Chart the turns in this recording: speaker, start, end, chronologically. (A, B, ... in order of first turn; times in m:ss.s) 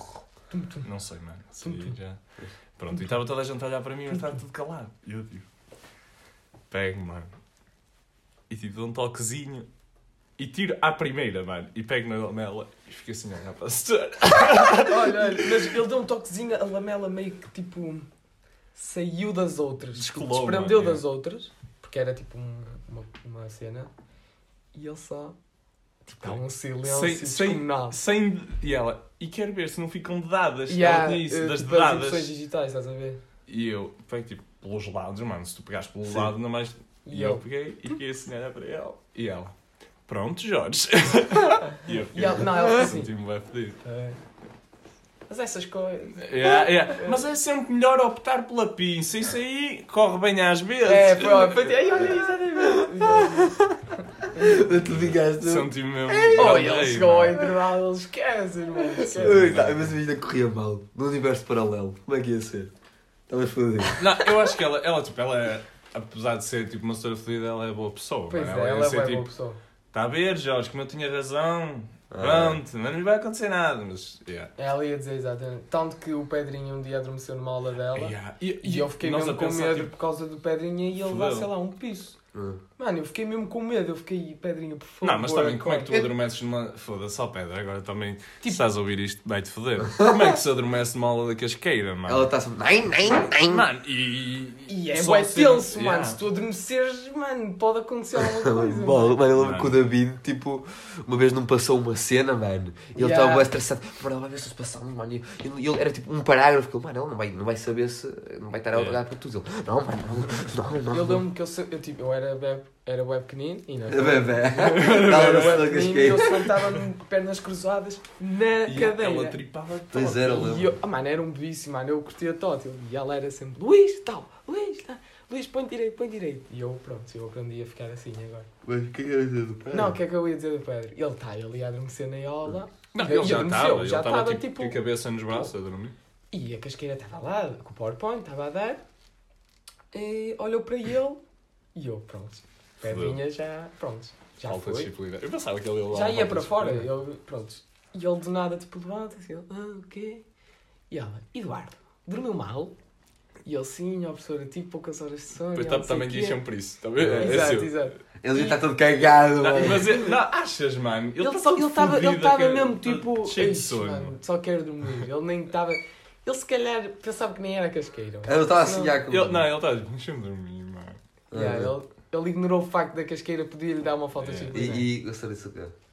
0:00.5-0:00.8 A
0:00.8-0:02.2 B
0:01.6-0:02.0 A
0:02.8-0:05.5 B
0:06.7-0:07.3 B
0:08.5-0:09.7 B
0:10.4-0:15.6 B
0:14.7-0:18.1 A
0:18.8-0:23.9 A
0:20.0-0:21.0 B
0:24.7-0:25.4 A
0:26.1-0:28.0 A
0:26.2-0:32.3 B
0:30.7-0:33.2 A
0:33.5-0:39.5 B
0:37.1-0:37.4 A
0:40.1-0:43.8 B
0:42.1-0:43.1 A
0:43.8-0:44.2 A
0:45.3-0:47.2 A
0:46.2-0:52.0 B
0:50.8-0:53.6 A
0:52.8-0:53.7 C
0:54.3-0:56.7 C
0:54.8-0:57.4 B
0:56.3-0:59.6 A
0:59.0-1:02.7 C
0:59.1-0:59.9 B
1:03.3-1:04.2 C
1:04.0-1:09.3 B
1:08.3-1:09.6 A
1:09.9-1:14.5 B
1:12.1-1:12.6 C
1:14.6-1:22.2 A
1:18.0-1:19.9 B
1:21.0-1:21.5 B
1:22.3-1:22.6 C
1:22.8-1:26.0 A
1:25.0-1:32.3 B
1:32.1-1:33.7 C
1:33.4-1:36.2 B
1:34.7-1:39.2 A
1:38.2-1:51.2 C
1:39.4-1:39.8 B
1:43.0-1:43.5 A
1:48.7-1:49.0 B
1:50.9-1:59.4 A
1:53.9-1:56.5 C
1:54.6-1:55.7 B
1:58.7-2:00.6 B
1:59.9-2:00.7 C
2:00.3-2:08.5 A
2:08.6-2:10.0 C
2:09.7-2:14.8 A
2:12.9-2:16.0 B
2:16.3-2:18.8 A
2:19.9-2:21.2 A
2:21.8-2:24.9 A
2:22.8-2:23.2 B
2:24.4-2:26.9 B
2:25.9-2:30.2 A
2:30.9-2:32.7 A
2:33.4-2:36.4 A
2:35.5-2:37.8 B
2:37.0-2:37.5 C
2:37.2-2:38.6 A
2:38.2-2:40.1 C
2:39.4-2:44.2 B
2:39.6-2:40.0 A
2:41.2-2:49.0 A
2:48.2-2:49.5 C
2:49.1-2:51.0 B
2:51.3-2:51.8 C
2:51.3-2:54.9 A
2:54.2-2:54.8 B
2:54.5-2:55.8 C